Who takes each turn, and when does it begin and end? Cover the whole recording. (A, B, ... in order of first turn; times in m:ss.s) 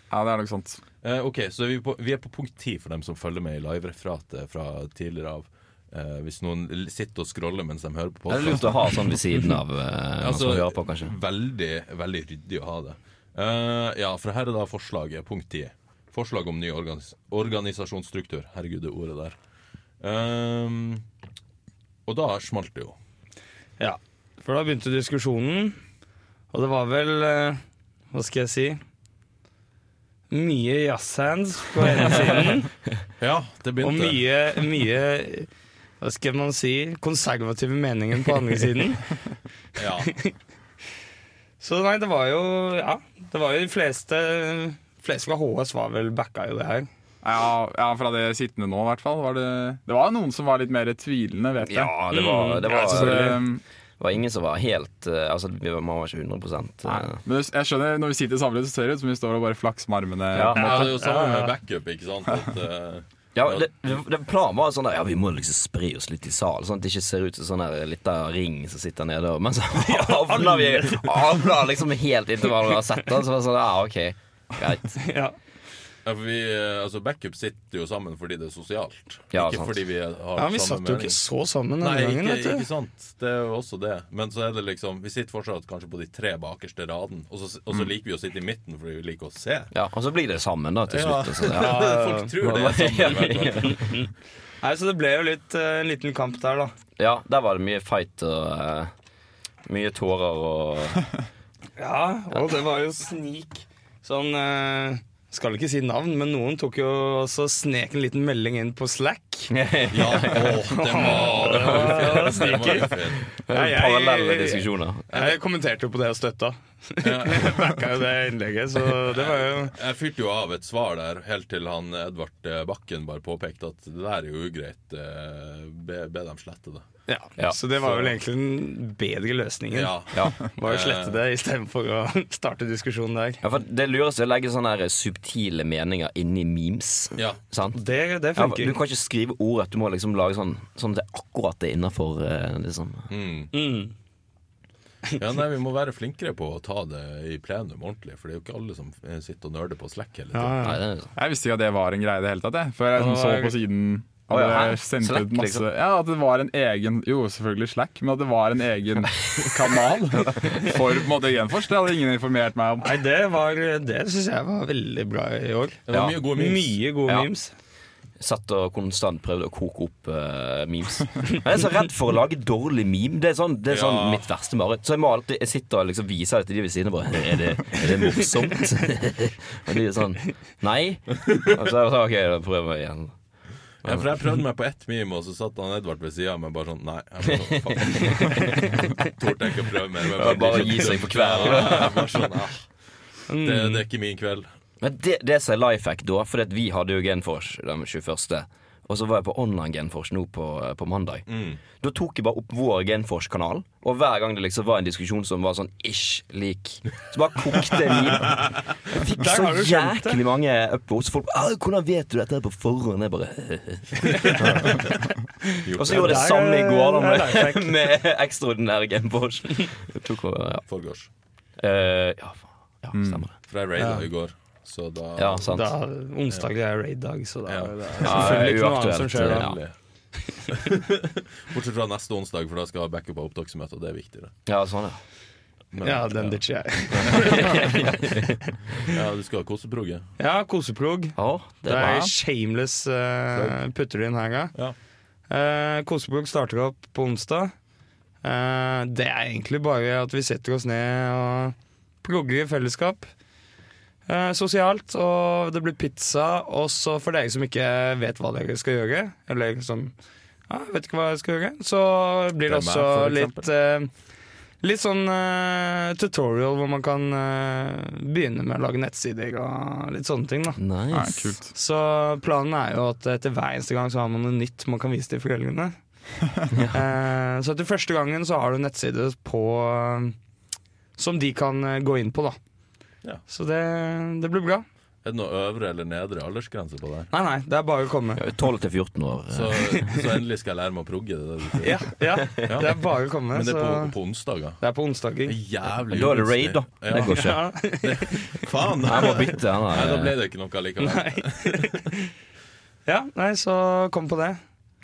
0:00.1-0:00.8 A
0:01.0-0:09.1 B
0:08.3-0:11.1 C
0:10.2-0:19.3 B
0:20.0-0:21.0 B
0:22.0-0:22.9 B
0:23.8-0:25.8 D
0:26.5-0:27.6 D
0:28.1-0:28.8 D
0:30.3-0:32.7 D
0:33.2-0:34.2 B
0:33.8-0:35.5 D
0:36.0-0:39.1 D
0:39.8-0:40.1 B
0:40.0-0:40.3 D
0:41.6-0:46.9 D
0:47.2-0:53.6 A
0:51.6-0:53.4 C
0:52.1-0:53.4 D
0:54.0-0:57.2 C
0:56.8-1:00.8 A
1:00.3-1:00.7 C
1:00.5-1:03.7 B
1:00.6-1:01.5 D
1:03.3-1:15.0 C
1:09.8-1:11.3 D
1:15.0-1:15.3 D
1:16.0-1:21.2 B
1:19.3-1:19.8 C
1:20.4-1:22.6 D
1:21.8-1:29.7 B
1:29.7-1:33.9 C
1:30.9-1:33.8 B
1:31.6-1:32.3 D
1:33.7-1:34.1 D
1:34.6-1:36.7 D
1:37.0-1:38.9 C
1:39.6-1:41.0 C
1:41.8-1:49.5 D
1:49.5-1:50.6 C
1:49.9-1:53.3 B
1:50.6-1:59.7 D
1:51.4-1:52.3 C
1:53.4-1:55.0 C
1:57.0-1:57.7 B
1:59.0-2:06.8 B
2:07.1-2:13.4 D
2:07.8-2:08.1 B
2:09.7-2:11.2 B
2:13.4-2:17.8 C
2:17.7-2:18.8 D
2:18.4-2:23.1 C
2:23.1-2:23.5 B
2:23.5-2:23.9 D
2:25.2-2:30.7 B
2:30.3-2:30.8 D
2:30.6-2:31.1 C
2:31.2-2:43.0 A
2:32.9-2:33.5 D
2:34.3-2:35.7 C
2:42.8-2:45.8 D
2:45.8-2:46.8 B
2:45.9-2:46.2 C
2:46.3-2:47.5 D
2:48.2-3:03.1 C
2:53.7-2:54.2 B
3:03.8-3:04.1 C
3:03.8-3:12.6 B
3:07.3-3:08.6 C
3:10.2-3:12.1 C
3:13.3-3:13.8 D
3:13.4-3:14.5 B
3:14.8-3:21.2 C
3:21.3-3:21.6 B
3:21.8-3:34.8 C
3:28.9-3:30.2 D
3:34.2-3:34.9 B
3:35.6-3:36.3 B
3:35.8-3:40.6 C
3:35.8-3:37.7 D
3:40.7-3:41.1 B
3:41.6-3:43.3 C
3:42.9-3:43.2 A
3:43.5-3:45.5 B
3:43.8-3:44.0 D
3:45.2-3:45.7 C
3:45.5-3:49.5 D
3:47.4-3:48.6 B
3:48.0-3:49.6 C
3:49.2-3:49.7 B
3:50.5-3:54.3 B
3:54.4-3:55.0 C
3:55.7-3:56.4 B
3:55.8-3:58.3 D
3:56.9-3:57.5 B
3:57.1-3:58.2 C
3:58.8-4:00.0 B
4:00.2-4:04.5 D
4:01.2-4:02.0 C
4:01.7-4:02.1 A
4:03.3-4:03.6 B
4:05.3-4:07.5 D
4:08.2-4:13.1 D
4:14.1-4:19.9 D
4:20.5-4:23.9 D
4:22.4-4:23.5 B
4:24.6-4:30.6 D
4:30.6-4:31.3 C
4:30.9-4:31.5 A
4:31.5-4:35.7 D
4:36.7-4:40.1 D
4:41.0-4:42.4 D
4:43.3-4:44.6 D
4:45.0-4:47.1 B
4:47.1-4:48.2 D
4:48.2-4:49.6 C
4:49.3-4:54.6 B
4:51.6-4:53.9 D
4:54.6-4:55.4 D
4:55.2-5:01.8 B
4:55.9-4:57.4 C
4:56.9-4:58.4 D
4:58.8-5:00.1 C
5:00.8-5:02.0 D
5:02.8-5:04.4 D